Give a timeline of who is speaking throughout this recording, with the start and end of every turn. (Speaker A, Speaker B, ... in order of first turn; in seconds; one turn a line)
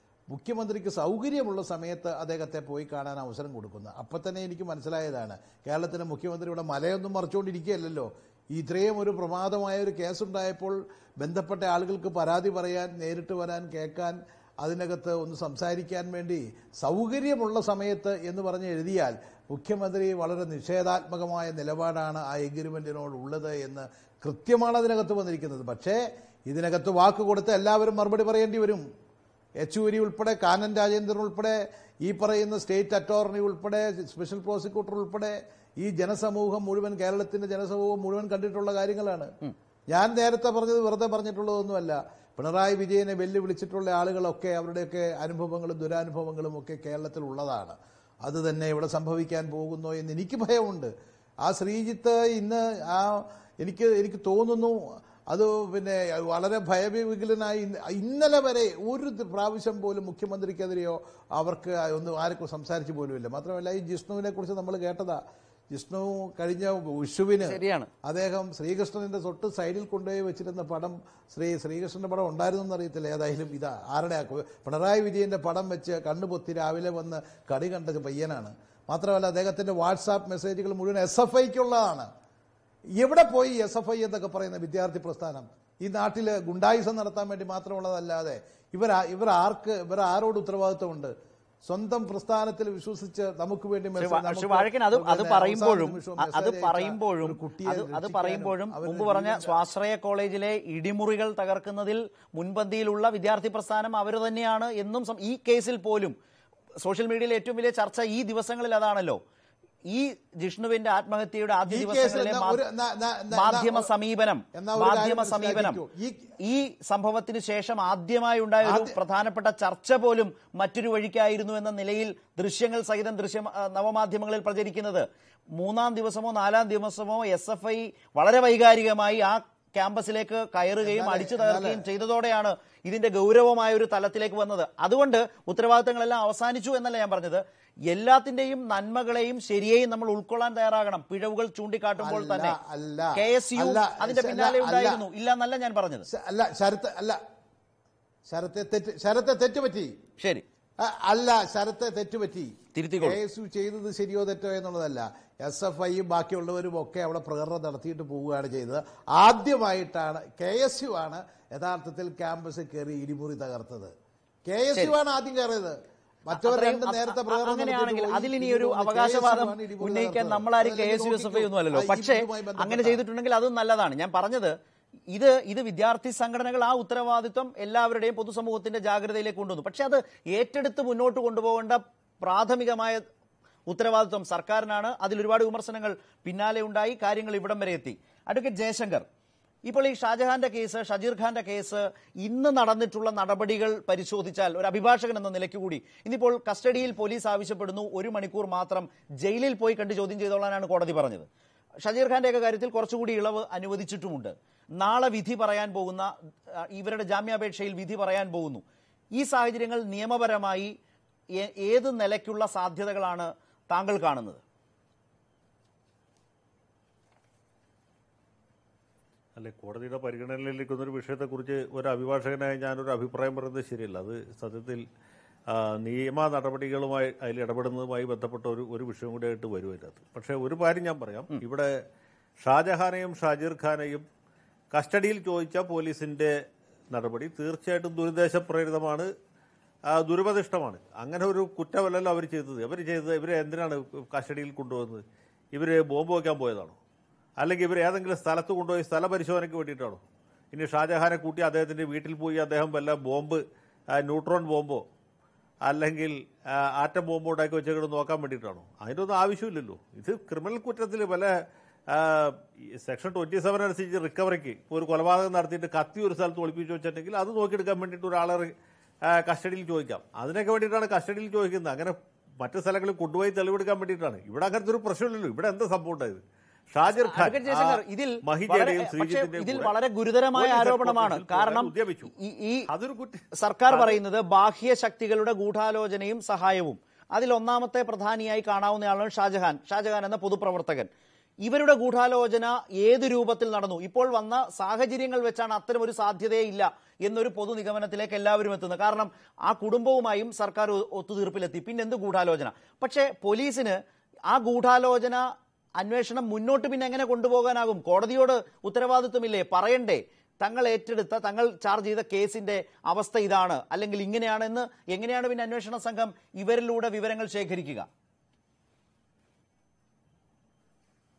Speaker A: 0.3-28.9
Speaker A: 29.6-39.3
Speaker A: 39.9-50.9
Speaker A: 51.4-54.8
Speaker A: 55.3-65.2
Speaker A: 65.7-82.1
Speaker B: 67.5-67.9
Speaker A: 83.0-91.1
Speaker A: 91.7-99.6
Speaker B: 94.0-106.2
Speaker B: 106.8-109.2
Speaker B: 109.9-112.6
Speaker A: 111.7-113.9
Speaker B: 113.3-115.8
Speaker A: 114.5-116.3
Speaker B: 116.4-142.6
Speaker A: 118.6-119.0
Speaker A: 130.8-131.8
Speaker A: 142.0-145.0
Speaker B: 143.2-146.1
Speaker A: 146.1-147.2
Speaker A: 148.3-149.9
Speaker B: 150.2-150.4
Speaker A: 150.8-163.9
Speaker B: 152.8-153.2
Speaker A: 164.5-165.8
Speaker A: 166.3-173.0
Speaker B: 166.3-174.6
Speaker B: 175.1-183.0
Speaker B: 183.7-189.1
Speaker B: 189.7-201.3
Speaker B: 201.8-208.6
Speaker B: 209.2-210.7
Speaker B: 211.4-214.4
Speaker C: 219.4-224.8
Speaker C: 225.5-231.7
Speaker C: 232.4-234.1
Speaker C: 234.7-236.3
Speaker C: 236.9-239.1
Speaker C: 239.9-246.8
Speaker C: 247.4-250.0
Speaker C: 250.5-253.4
Speaker C: 253.9-254.8
Speaker C: 255.7-261.4
Speaker C: 261.9-268.5
Speaker C: 269.1-279.7
Speaker B: 276.9-282.7
Speaker C: 280.3-282.1
Speaker C: 282.7-284.0
Speaker B: 283.4-290.9
Speaker B: 291.4-303.8
Speaker B: 304.3-305.2
Speaker B: 305.8-317.9